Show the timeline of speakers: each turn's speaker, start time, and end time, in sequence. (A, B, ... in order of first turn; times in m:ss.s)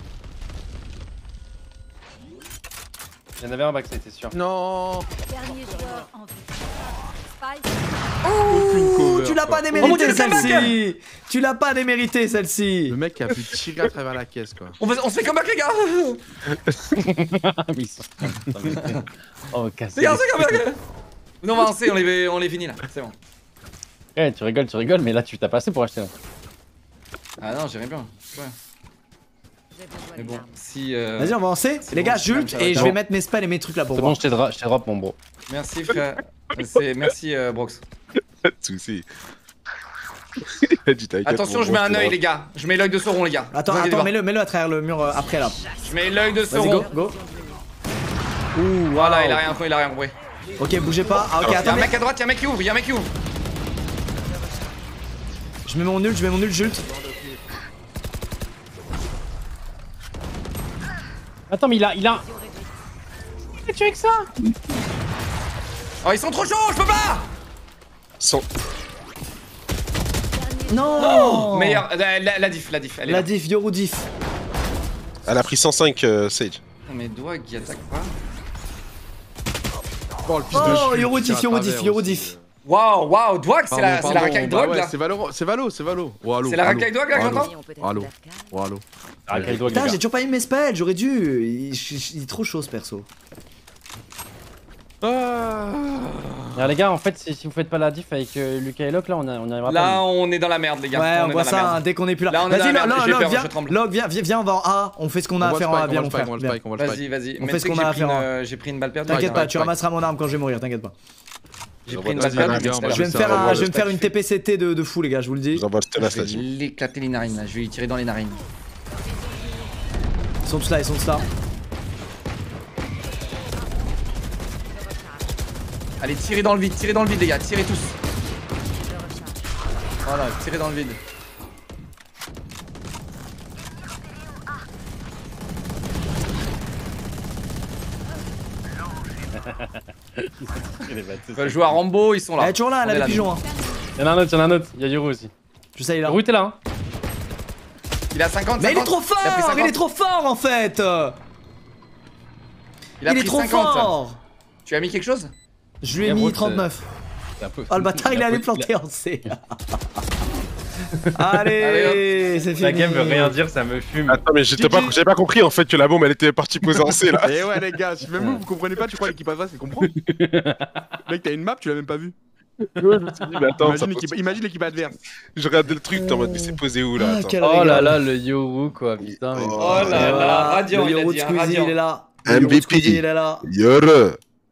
0:03.4-0:04.4 A
0:04.3-0:05.1 B
0:05.2-0:08.4 C
0:08.3-0:10.7 B
0:08.4-0:13.0 D
0:09.8-0:10.8 E
0:12.9-0:14.8 B
0:14.8-0:16.2 E
0:17.0-0:20.6 A
0:18.8-0:19.0 E
0:20.0-0:20.8 E
0:21.4-0:23.2 E
0:24.2-0:26.1 A
0:27.4-0:28.6 E
0:30.1-0:33.0 E
0:31.2-0:34.2 D
0:34.0-0:35.2 A
0:35.5-0:37.8 E
0:38.4-0:39.1 F
0:40.5-0:42.2 F
0:41.2-0:44.1 E
0:43.5-0:45.6 D
0:45.8-0:46.9 E
0:46.5-0:47.2 D
0:48.5-0:49.6 D
0:49.0-0:50.1 E
0:50.6-0:52.0 D
0:51.1-0:51.8 F
0:51.4-0:53.1 E
0:55.7-0:56.8 D
1:01.5-1:02.3 A
1:03.6-1:04.3 A
1:06.0-1:07.3 E
1:10.3-1:11.5 C
1:10.7-1:11.9 D
1:11.0-1:13.3 E
1:13.0-1:14.1 D
1:15.3-1:16.6 F
1:16.9-1:18.2 E
1:20.3-1:22.4 B
1:20.5-1:22.3 D
1:22.7-1:24.9 E
1:23.7-1:29.9 B
1:26.4-1:27.6 E
1:29.3-1:30.0 A
1:29.3-1:33.1 D
1:35.0-1:36.7 B
1:36.6-1:40.0 A
1:39.7-1:43.8 E
1:40.9-1:46.6 D
1:45.4-1:47.0 B
1:46.8-1:49.7 E
1:47.4-1:48.3 D
1:49.1-1:51.0 D
1:49.1-1:49.7 B
1:51.9-1:54.1 E
1:51.9-1:53.0 F
1:52.1-1:53.8 B
1:52.9-1:55.6 D
1:55.5-1:56.4 F
1:56.0-1:58.4 E
2:00.4-2:01.3 D
2:06.0-2:08.0 E
2:10.0-2:11.0 E
2:19.4-2:21.8 A
2:21.4-2:23.3 E
2:22.4-2:23.4 D
2:23.2-2:24.0 C
2:24.0-2:25.3 A
2:25.8-2:26.2 D
2:26.0-2:26.6 A
2:28.1-2:29.8 E
2:28.6-2:31.2 D
2:33.0-2:34.0 E
2:33.0-2:34.2 D
2:34.7-2:35.3 E
2:35.8-2:36.8 D
2:36.0-2:36.7 A
2:37.4-2:38.7 A
2:37.7-2:39.6 D
2:41.1-2:43.4 D
2:41.6-2:42.0 E
2:42.6-2:44.3 A
2:44.1-2:47.4 F
2:44.6-2:45.0 B
2:47.2-2:49.9 B
2:49.8-2:50.9 A
2:51.1-2:52.1 B
2:52.8-2:54.2 F
2:52.8-2:55.0 B
2:55.3-2:57.8 F
2:56.0-2:58.1 D
2:57.4-3:00.3 A
2:59.1-3:00.3 F
2:59.6-3:01.8 E
2:59.8-3:03.5 D
3:02.3-3:04.2 F